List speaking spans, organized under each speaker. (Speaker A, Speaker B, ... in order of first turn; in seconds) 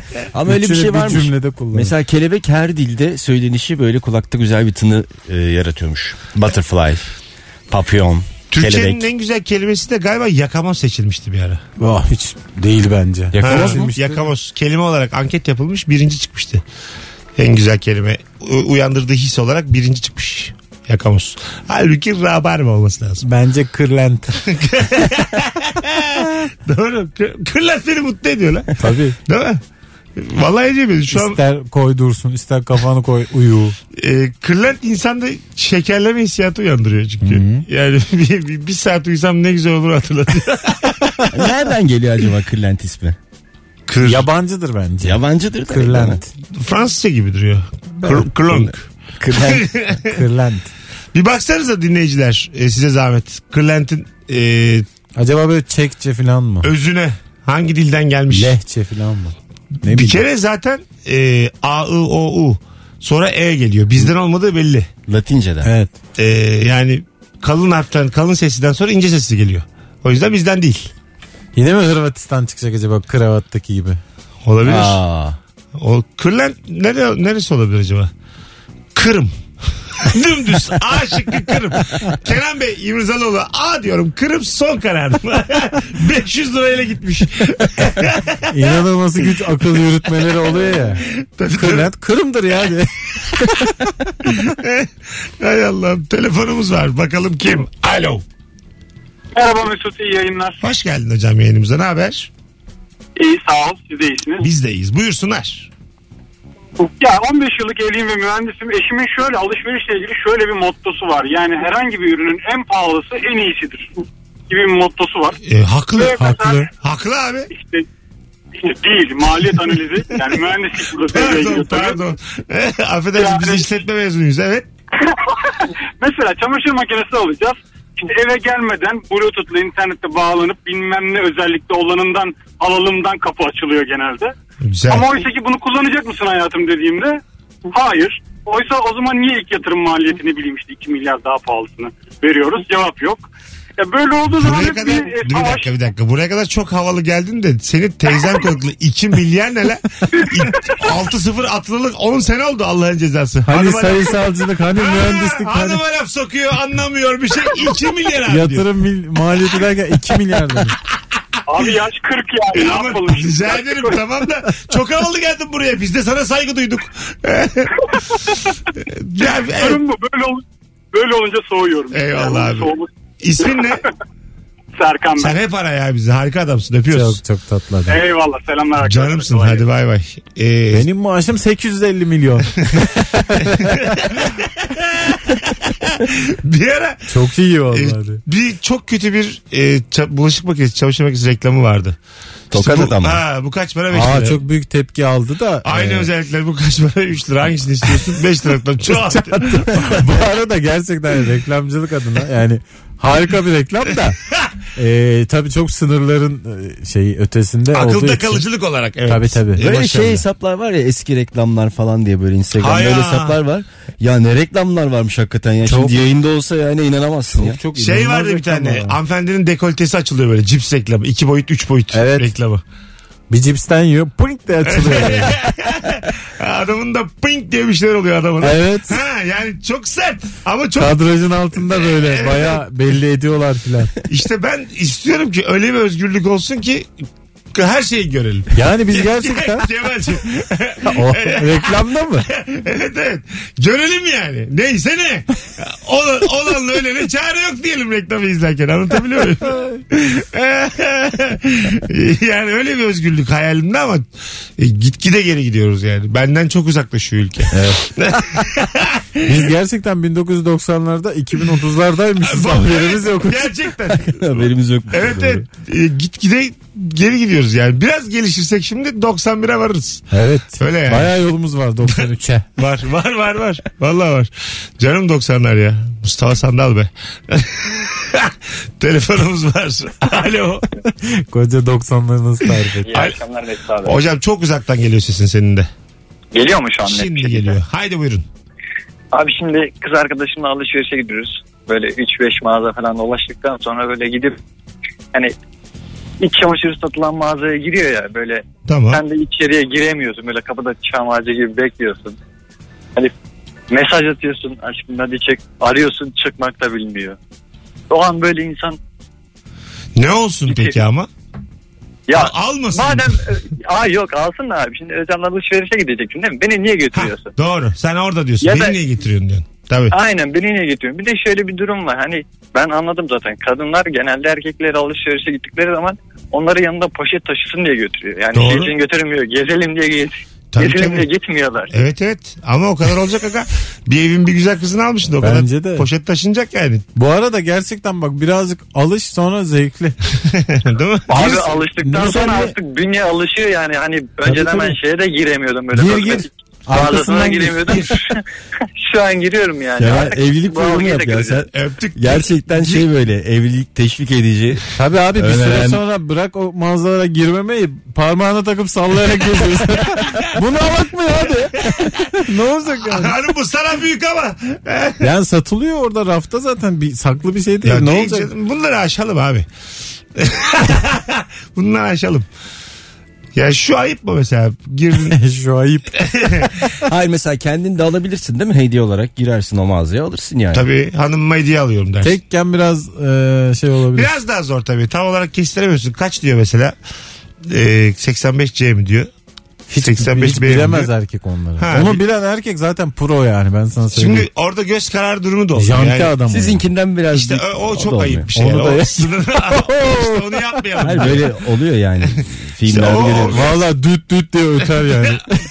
Speaker A: 0.3-7.0, 7.7-9.1, 13.3-13.9, 41.3-43.2, 45.0-46.2, 49.2-49.6, 59.9-60.2, 65.1-65.7, 74.6-75.4, 192.5-193.2, 209.6-217.6, 264.1-265.4, 344.3-344.7, 349.8-354.6, 355.2-355.8, 376.9-380.7, 396.2-398.3, 400.8-403.5
Speaker B: 0.5-1.9, 11.8-14.3, 23.2-24.3, 28.8-29.2, 31.1-33.8, 37.2-37.6, 44.0-46.3, 50.1-50.7, 55.2-56.7, 58.3-59.4, 65.6-65.9, 71.5-74.0, 88.5-91.0, 91.5-94.1, 116.2-116.7, 153.5-155.8, 158.3-160.8, 176.9-178.0, 180.7-184.0, 187.1-188.2, 193.9-196.1, 198.9-204.2, 204.8-208.5, 209.1-209.6, 215.6-216.2, 217.3-219.0, 221.9-222.3, 223.3-225.4, 228.4-229.0, 230.8-233.9, 238.6-239.7, 240.8-242.3, 259.3-263.5, 270.1-272.5, 281.1-282.9, 335.2-335.9, 337.0-340.0, 341.2-342.5, 345.7-348.0, 354.8-363.2, 365.0-368.3, 375.1-376.0, 382.0-384.2, 389.7-394.3, 395.6-396.6, 398.3-400.1, 400.8-401.2, 403.3-405.2
Speaker C: 8.5-11.6, 13.4-16.6, 17.4-23.2, 24.4-28.7, 29.3-29.6, 30.2-31.4, 34.0-41.5, 43.9-44.3, 46.5-50.1, 51.1-54.9, 56.6-58.5, 59.9-64.9, 66.2-70.9, 74.5-75.0, 75.8-78.1, 78.9-79.3, 80.0-88.5, 90.9-91.9, 94.3-98.2, 100.6-102.3, 104.4-105.7, 115.5-117.5, 121.1-124.7, 134.6-135.1, 144.4-154.2, 154.7-158.7, 162.6-168.0, 168.8-169.8, 171.9-173.8, 175.2-177.2, 178.8-180.9, 183.6-187.1, 187.7-192.0, 192.5-194.4, 195.7-200.1, 207.7-210.2, 212.5-213.4, 217.7-222.6, 224.7-230.9, 231.7-232.6, 234.1-236.9, 237.5-241.7, 242.2-254.1, 254.6-259.4, 262.3-270.1, 270.6-271.2, 272.6-280.6, 282.9-283.2, 283.8-285.7, 286.8-288.2, 298.7-299.0, 310.0-311.1, 312.1-313.2, 316.9-319.9, 328.3-328.7, 330.6-331.1, 331.7-336.9, 340.3-341.6, 351.5-352.9, 362.8-365.1, 367.6-369.5, 370.2-372.3, 373.4-375.2, 376.0-376.6, 380.5-382.1, 384.0-386.8, 387.5-389.1, 389.8-390.9, 391.6-392.0, 393.9-396.2, 397.1-401.3, 402.7-403.6
Speaker D: 99.3-100.6, 103.2-104.5, 106.8-115.4, 116.0-116.7, 117.5-117.9, 118.6-122.0, 123.2-123.7, 125.5-134.3, 134.9-145.7, 150.2-150.5, 161.5-164.0, 169.2-172.9, 173.4-173.7, 174.8-175.3, 177.9-179.6
Speaker E: 282.8-284.0, 286.3-287.6, 289.1-294.4, 296.2-302.2, 303.7-307.2, 307.9-308.8, 310.5-310.8, 312.1-317.3, 318.4-318.8, 319.9-331.8, 341.1-348.2, 348.8-351.4